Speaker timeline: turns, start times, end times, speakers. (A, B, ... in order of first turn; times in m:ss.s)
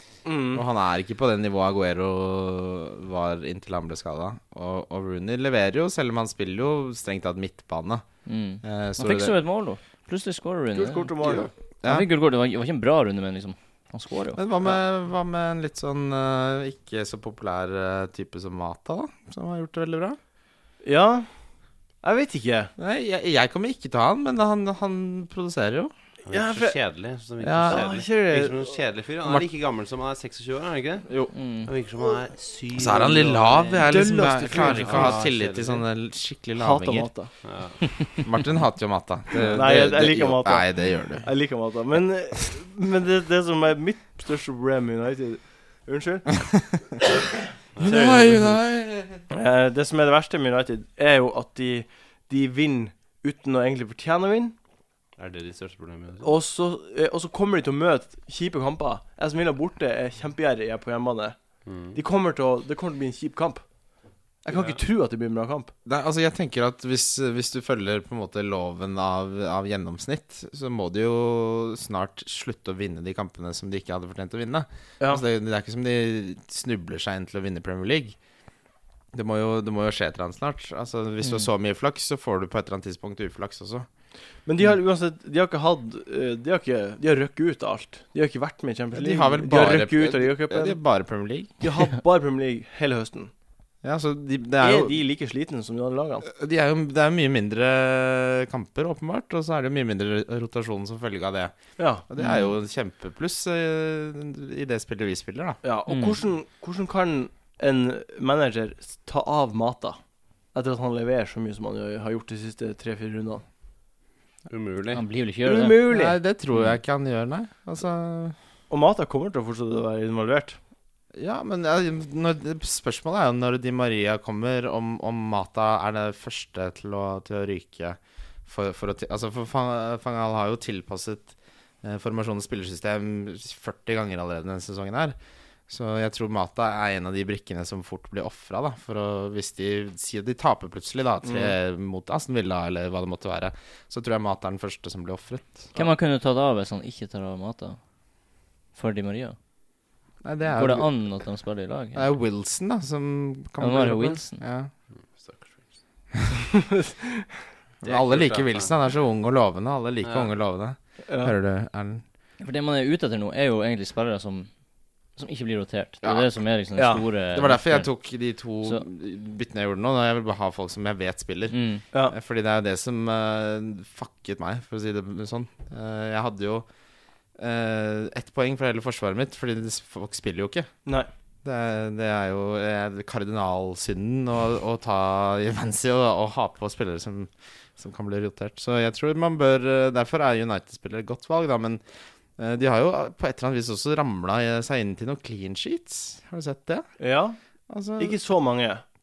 0:00.2-0:00.6 A
0:00.5-0:08.1 B
0:08.3-0:14.4 C
0:08.6-0:09.4 B
0:10.7-0:11.5 A
0:11.2-0:12.1 B
0:14.4-0:20.2 B
0:20.8-0:21.4 A
0:22.0-0:22.7 A
0:22.8-0:25.9 B
0:26.2-0:31.1 D
0:26.3-0:26.8 A
0:27.4-0:27.9 B
0:27.7-0:28.7 A
0:31.3-0:31.7 C
0:31.6-0:33.9 D
0:32.8-0:37.1 B
0:33.9-0:35.2 A
0:34.5-0:35.8 D
0:36.6-0:37.3 A
0:37.4-0:38.0 D
0:38.2-0:41.3 B
0:39.4-0:46.5 A
0:47.8-0:48.5 A
0:47.8-0:49.3 B
0:49.3-0:54.6 A
0:55.2-0:56.3 D
0:56.2-1:01.4 A
1:01.6-1:02.0 D
1:01.9-1:03.7 A
1:04.4-1:05.7 A
1:04.5-1:04.8 D
1:05.8-1:18.2 B
1:19.1-1:23.9 B
1:21.2-1:21.5 C
1:24.5-1:30.8 A
1:28.9-1:31.5 B
1:31.6-1:33.3 A
1:33.8-1:35.0 B
1:34.6-1:36.3 A
1:36.3-1:41.6 B
1:41.8-1:42.0 A
1:42.1-1:45.6 B
1:42.2-1:42.6 C
1:45.6-1:50.0 A
1:45.9-1:46.2 C
1:50.5-1:53.4 A
1:54.5-1:55.0 D
1:54.9-1:55.8 C
1:55.4-1:56.2 A
1:55.9-1:58.4 B
1:58.7-2:00.6 A
2:01.1-2:15.2 B
2:15.7-2:25.7 B
2:25.8-2:27.8 C
2:28.7-2:29.4 C
2:30.2-2:31.2 B
2:30.5-2:32.1 C
2:32.0-2:34.7 B
2:33.6-2:34.4 C
2:34.9-2:35.8 D
2:36.7-2:37.3 A
2:37.8-2:38.7 D
2:37.8-2:42.0 B
2:40.0-2:40.3 D
2:41.1-2:41.3 A
2:42.4-2:44.6 C
2:45.1-2:47.9 C
2:46.0-2:46.3 B
2:46.8-2:47.0 A
2:47.3-2:56.7 B
2:51.5-2:51.8 C
2:57.4-3:00.7 B
3:01.4-3:11.8 B
3:12.4-3:16.9 B
3:17.0-3:17.4 A
3:17.7-3:18.2 B
3:18.0-3:18.8 A